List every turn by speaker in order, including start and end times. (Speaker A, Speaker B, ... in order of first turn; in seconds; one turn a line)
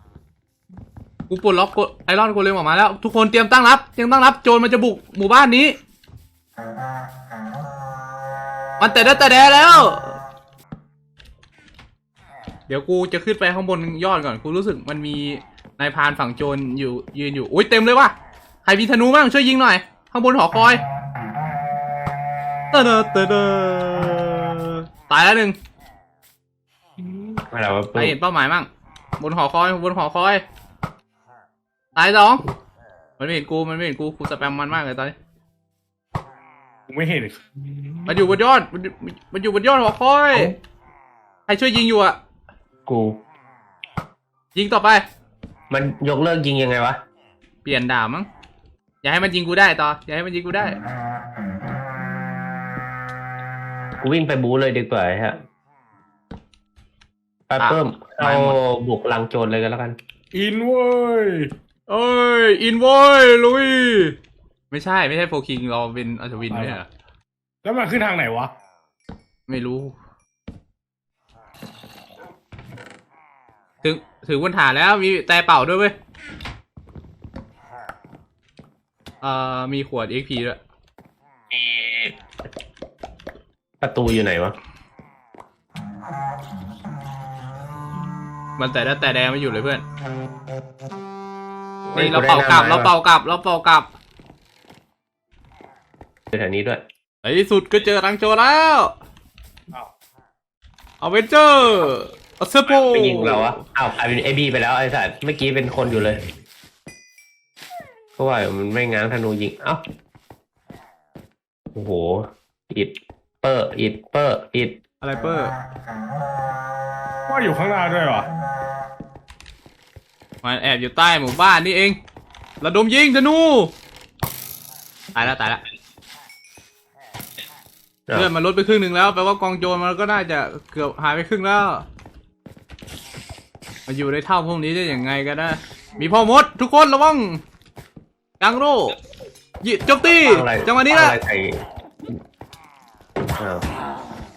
Speaker A: 1.3-5.8
Speaker A: 8.8-10.2
Speaker A: 12.7-20.8
Speaker A: 22.7-25.6
Speaker B: 27.4-28.1
Speaker A: 27.9-28.7
Speaker A: 29.2-30.4
Speaker A: 31.9-32.4
Speaker A: 33.2-35.1
Speaker C: 36.9-38.0
Speaker A: 38.1-40.5
Speaker A: 41.5-42.2
Speaker B: 42.9-43.2
Speaker A: 44.5-45.0
Speaker B: 45.7-47.0
Speaker A: 47.6-48.3
Speaker A: 49.0-50.8
Speaker B: 54.0-55.4
Speaker B: 57.5-60.0
Speaker A: 57.6-58.6
Speaker C: 60.3-61.5
Speaker A: 61.9-64.2
Speaker A: 64.7-66.9
Speaker C: 66.5-66.8
Speaker C: 67.6-68.5
Speaker A: 69.5-69.9
Speaker A: 73.8-75.9
Speaker A: 79.2-80.6
Speaker B: 81.5-82.1
Speaker B: 83.8-84.5
Speaker A: 88.6-89.8
Speaker B: 91.9-92.9
Speaker A: 91.9-93.9
Speaker B: 96.3-96.8
Speaker A: 97.2-98.9
Speaker A: 101.0-103.6
Speaker B: 102.8-106.2
Speaker B: 108.2-109.8
Speaker B: 111.7-114.8
Speaker A: 115.0-115.5
Speaker C: 117.3-118.3
Speaker A: 120.4-122.0
Speaker A: 122.6-123.7
Speaker A: 125.1-125.6
Speaker A: 128.1-131.8
Speaker A: 133.9-137.4
Speaker A: 138.4-139.0
Speaker A: 139.6-141.2
Speaker B: 140.2-141.6
Speaker B: 143.4-143.6